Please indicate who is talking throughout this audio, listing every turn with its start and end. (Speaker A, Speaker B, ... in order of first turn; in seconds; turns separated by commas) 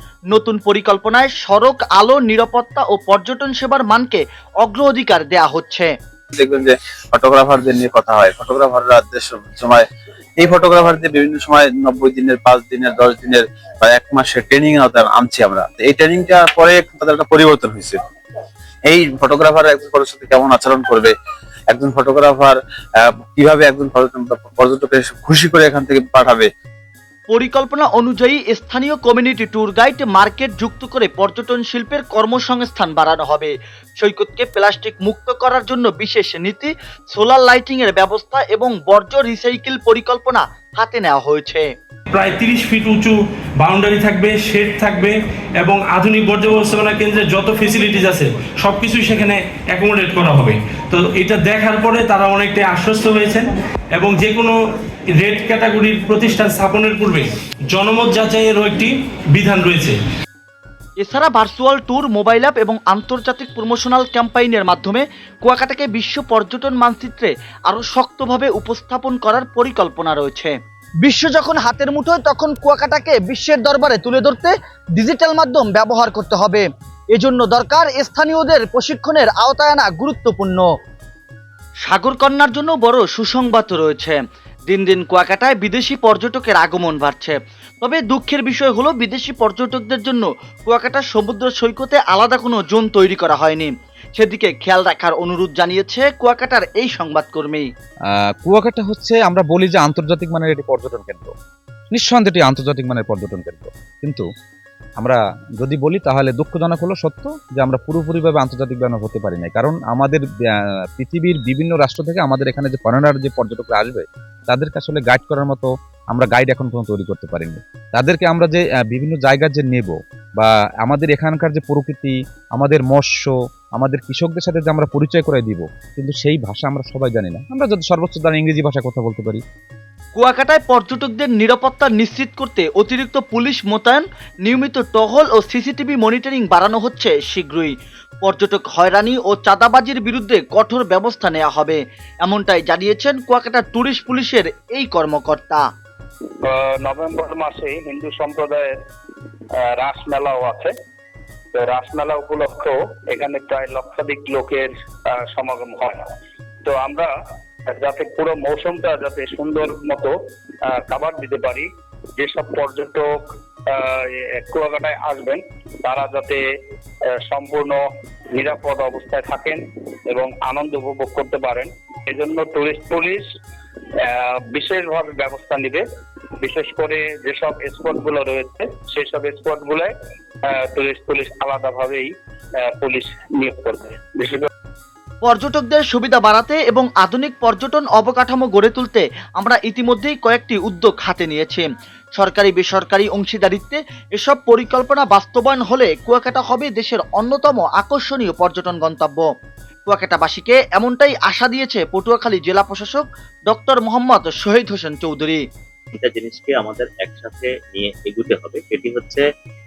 Speaker A: 0.3-5.9, Speaker B: 6.3-9.8, Speaker B: 10.4-18.0, Speaker B: 18.9-21.1, Speaker B: 21.7-26.5, Speaker A: 27.3-41.7, Speaker C: 42.1-54.5, Speaker C: 55.2-60.0, Speaker A: 61.0-80.7, Speaker A: 81.9-97.7, Speaker D: 98.4-101.3, Speaker D: 101.9-104.2, Speaker D: 105.0-110.2, Speaker D: 111.0-129.4, Speaker A: 130.2-137.7, Speaker A: 138.2-145.6, Speaker E: 146.5-148.7, Speaker E: 149.8-150.7, Speaker E: 151.5-156.0, Speaker E: 156.7-157.1, Speaker E: 157.7-160.1, Speaker E: 160.7-166.4, Speaker E: 167.3-167.8, Speaker E: 168.3-173.3, Speaker E: 174.0-175.8, Speaker E: 176.4-179.9, Speaker E: 180.5-182.1, Speaker E: 182.8-184.5, Speaker A: 185.2-191.7, Speaker A: 192.2-199.2, Speaker A: 199.9-205.4, Speaker F: 206.0-209.2